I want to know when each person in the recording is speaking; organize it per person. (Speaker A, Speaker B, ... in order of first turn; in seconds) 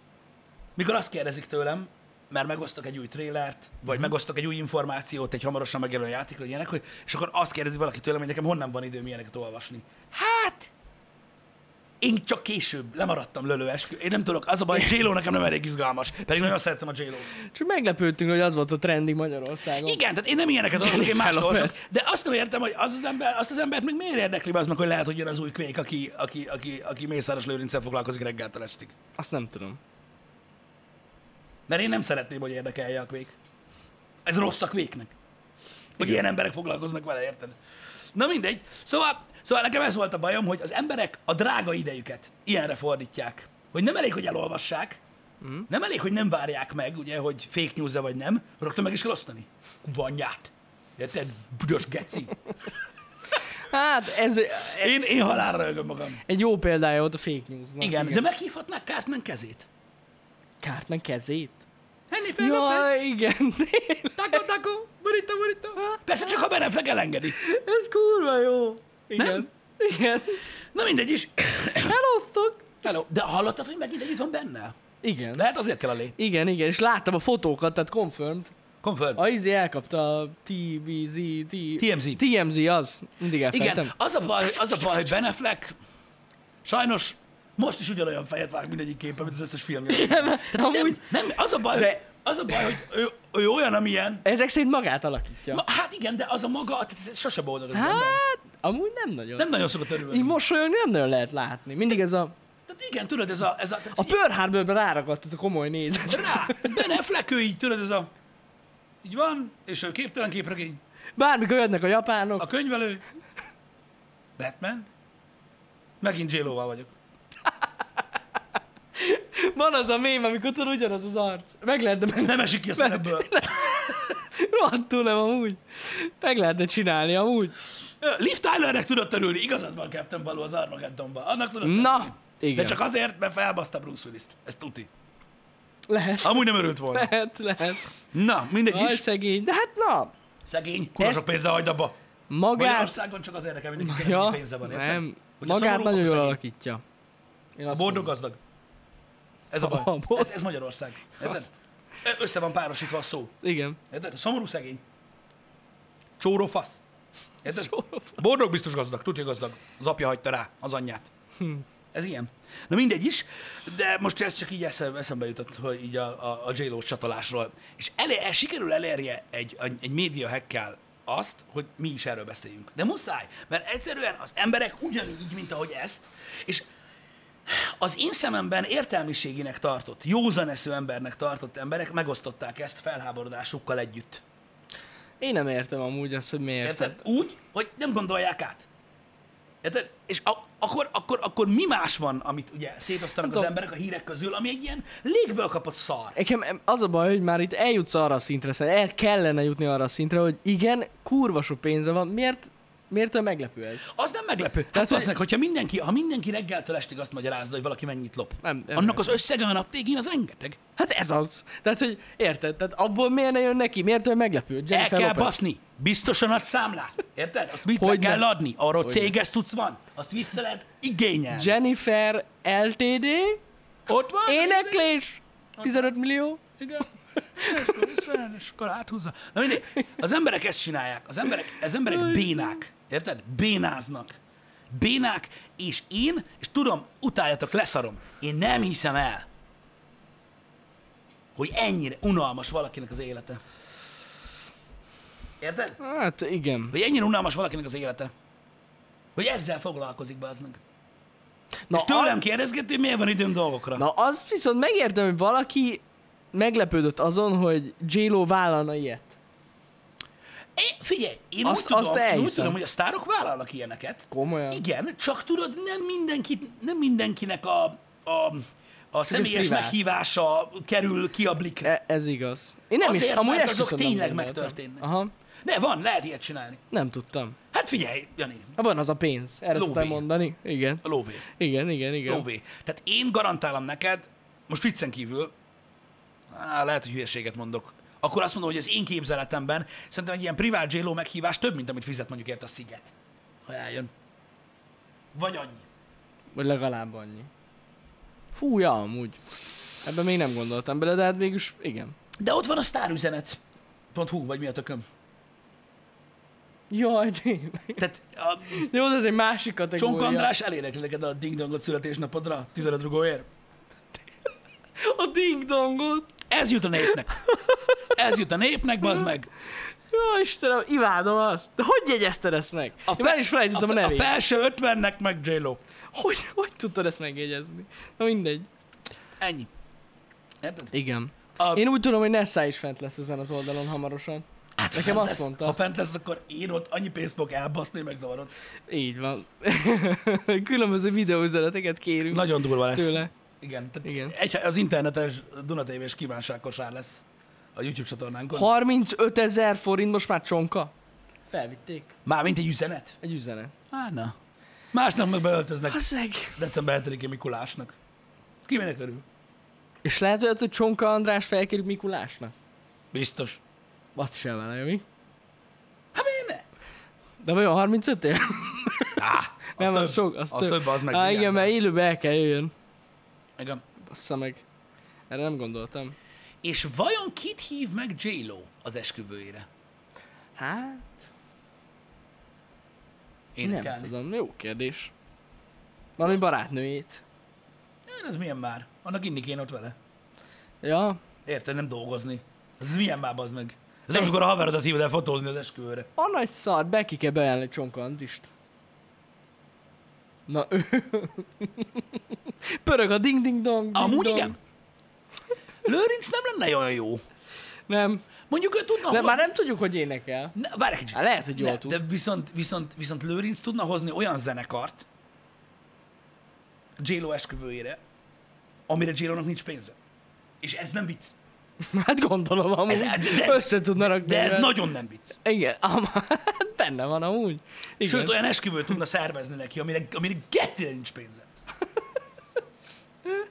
Speaker A: 0.8-10.7, 12.0-17.3, 19.8-28.9, 31.7-33.3, 34.2-35.1, 36.0-37.6, 38.1-45.0, 45.7-52.4, 54.7-56.2, 57.8-59.7, 62.1-62.9, 64.1-67.3, 69.2-69.4, 70.7-72.0, 72.8-74.8, 75.3-76.1, 78.8-79.2, 81.8-82.2, 83.5-85.7, 86.6-94.2, 95.5-98.2, 99.4-100.4, 102.7-104.2, 106.1-108.1, 109.0-110.8, 112.4-113.0, 114.4-114.9, 116.0-116.9, 122.2-124.0, 127.8-134.9, 136.2-137.1, 138.1-139.0, 140.4-141.9, 142.5-146.4, 147.7-148.4, 149.5-151.5, 152.0-153.3, 153.9-154.8, 156.2-156.8, 157.4-161.1, 161.9-176.7, 177.4-184.2, 186.6-188.7, 189.6-196.2, 203.9-210.6, 214.7-221.6, 223.9-224.9, 225.6-225.9, 226.6-234.2, 234.7-239.3, 241.3-243.4, 245.4-245.8, 246.7-248.1, 249.2-250.6, 251.7-253.8, 260.6-271.7, 272.8-274.8, 275.4-276.6, 277.5-278.5, 279.5-280.0, 280.8-281.2, 282.1-285.3, 286.3-292.9, 293.4-293.9, 295.1-295.6, 302.2-303.4, 303.9-304.8, 307.8-308.6, 309.8-313.3, 316.3-317.2, 317.9-319.3, 322.9-325.6, 329.2-329.5, 330.4-330.7, 331.4-331.6, 334.6-338.3, 342.1-347.0, 347.6-348.5, 352.0-353.0, 353.7-354.1, 354.7-355.8, 356.3-357.8, 358.4-359.0, 362.9-363.4, 365.9-366.4, 368.9-371.5, 373.4-373.6, 376.4-379.5, 383.3-383.9, 387.9-389.8, 391.2-395.9, 403.7-404.4, 405.6-407.0, 408.3-409.3, 410.3-414.9, 416.8-417.8, 418.7-419.8, 420.4-421.1, 422.7-425.2, 427.8-431.2
Speaker B: 17.4-20.0, 20.7-21.9, 29.2-29.8, 45.4-45.7, 53.6-55.4, 56.2-58.2, 60.6-61.6, 62.4-64.4, 67.3-70.4, 71.8-72.7, 75.0-75.4, 76.2-78.5, 79.2-83.9, 89.9-91.0, 91.7-92.0, 94.2-95.6, 97.7-99.5, 100.0-102.3, 103.9-106.9, 111.2-112.5, 119.0-127.6, 131.6-132.8, 135.9-137.8, 138.7-140.1, 141.0-141.3, 142.3-142.9, 143.8-146.8, 147.6-148.1, 149.6-150.3, 151.2-151.5, 153.4-153.8, 157.5-158.2, 185.2-187.0, 193.2-193.5, 196.1-203.9, 204.7-205.1, 208.4-209.2, 210.8-215.3, 217.7-218.2, 218.8-219.1, 221.3-223.4, 224.2-226.4, 227.2-228.1, 231.9-232.6, 245.8-246.7, 251.7-252.2, 253.8-255.8, 256.3-259.2, 261.4-262.6, 264.1-264.6, 269.1-269.8, 271.6-275.1, 276.7-277.4, 278.6-282.2, 296.3-297.3, 298.3-299.2, 299.8-301.9, 306.7-307.8, 308.5-310.3, 314.8-316.1, 316.8-318.0, 319.9-324.1, 325.9-328.5, 330.7-335.6, 338.7-343.1, 343.8-344.1, 348.3-350.7, 351.3-351.9, 353.0-353.5, 355.7-356.4, 359.8-362.3, 363.9-364.8, 367.2-369.0, 369.6-372.5, 373.9-374.4, 375.1-375.9, 380.4-381.1, 383.4-384.9, 386.0-387.0, 390.6-391.0, 396.0-398.3, 400.3-401.8, 402.4-404.3, 407.7-408.0, 408.9-410.4, 410.9-411.8, 421.6-424.5, 425.2-428.1